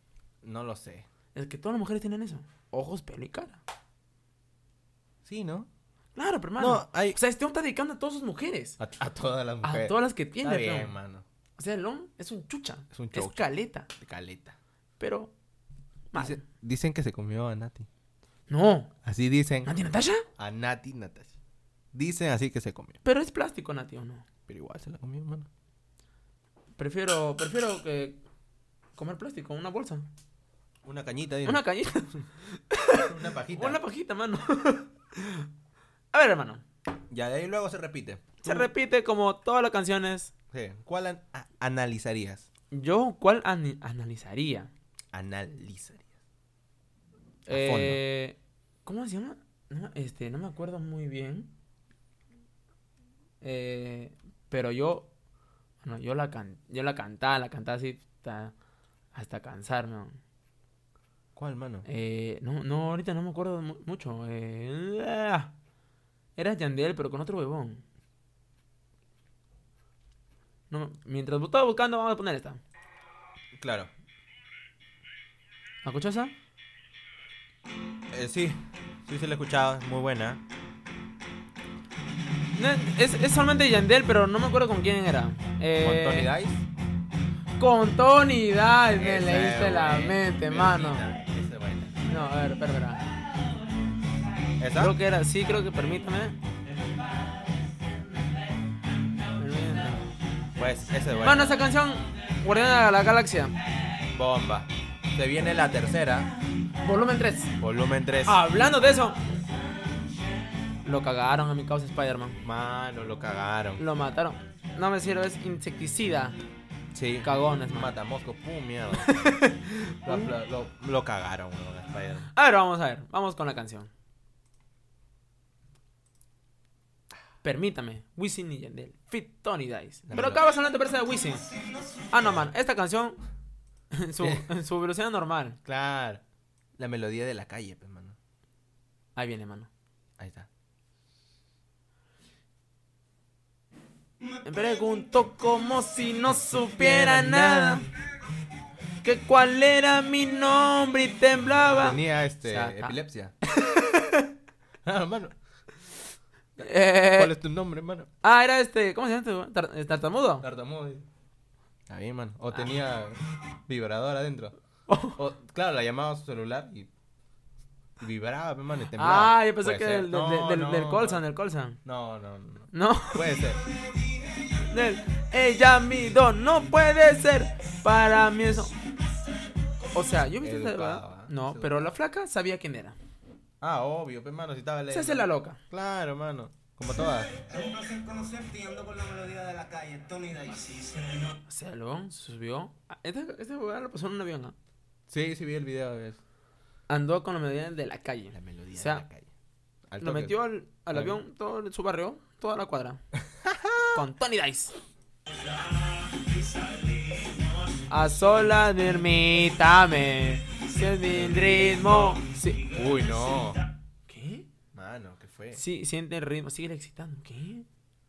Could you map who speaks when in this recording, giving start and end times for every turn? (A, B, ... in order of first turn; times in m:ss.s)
0:00.4-0:01.1 A
0:01.4-0:03.6 B
0:05.2-0:05.7 A
0:06.2-0:08.8 B
0:06.6-0:07.2 A
0:08.8-0:11.2 A
0:09.6-0:11.0 B
0:11.6-0:13.9 B
0:12.9-0:14.6 A
0:15.0-0:15.3 B
0:16.1-0:16.4 B
0:16.1-0:17.9 A
0:18.5-0:18.9 B
0:19.0-0:19.7 A
0:19.6-0:20.2 B
0:20.4-0:21.3 A
0:21.9-0:23.0 A
0:23.0-0:24.3 B
0:24.5-0:25.5 A
0:26.8-0:28.2 B
0:29.0-0:30.0 B
0:30.8-0:31.6 A
0:31.4-0:35.5 B
0:33.0-0:33.8 A
0:36.1-0:36.6 B
0:37.1-0:38.7 A
0:38.4-0:40.3 B
0:40.5-0:42.5 A
0:42.7-0:44.7 B
0:45.1-0:46.0 A
0:47.5-0:51.5 B
0:47.5-0:48.0 A
0:53.4-0:55.1 B
0:55.8-0:58.5 B
0:59.1-1:00.2 B
1:01.4-1:01.9 A
1:01.9-1:05.5 B
1:06.4-1:07.8 B
1:10.7-1:12.6 B
1:13.6-1:13.9 A
1:15.8-1:16.3 B
1:18.1-1:20.4 A
1:22.6-1:26.3 B
1:25.8-1:26.6 A
1:27.6-1:31.0 B
1:28.9-1:32.0 A
1:32.1-1:33.0 B
1:34.6-1:35.0 A
1:34.8-1:36.4 B
1:39.4-1:40.1 B
1:40.6-1:41.6 A
1:41.2-1:43.6 B
1:44.1-1:46.3 A
1:46.8-1:47.5 B
1:47.6-1:48.4 A
1:48.3-1:49.2 B
1:50.8-1:52.4 B
1:52.4-1:53.8 A
1:53.8-1:56.4 B
1:56.9-1:59.5 A
1:57.2-1:58.0 B
1:59.0-2:00.3 B
2:00.0-2:02.3 A
2:02.3-2:03.9 B
2:07.4-2:11.4 B
2:10.1-2:10.4 A
2:12.1-2:13.2 B
2:13.9-2:15.6 B
2:14.2-2:14.5 A
2:15.6-2:16.2 A
2:16.8-2:18.2 A
2:19.2-2:19.7 B
2:20.2-2:20.5 A
2:24.4-2:27.9 B
2:26.8-2:27.8 A
2:29.0-2:34.3 B
2:31.8-2:33.3 A
2:34.8-2:35.4 A
2:36.6-2:37.3 B
2:36.6-2:38.1 A
2:38.2-2:40.4 B
2:40.4-2:41.0 A
2:41.9-2:44.6 A
2:44.9-2:45.2 B
2:45.2-2:46.9 A
2:48.0-2:51.2 A
2:49.0-2:51.8 B
2:51.8-2:53.6 A
2:52.7-2:53.2 B
2:54.7-2:58.8 B
2:59.9-3:03.0 B
3:00.4-3:01.9 A
3:03.6-3:07.4 A
3:04.9-3:05.6 B
3:07.5-3:11.2 C
3:11.5-3:14.6 B
3:15.1-3:16.2 A
3:16.9-3:19.0 B
3:18.3-3:19.3 A
3:19.9-3:20.4 A
3:20.0-3:23.0 B
3:20.9-3:21.2 A
3:23.2-3:24.0 A
3:23.9-3:24.7 B
3:27.9-3:32.7 B
3:31.1-3:33.6 A
3:34.1-3:34.5 B
3:34.7-3:35.6 A
3:35.5-3:37.7 B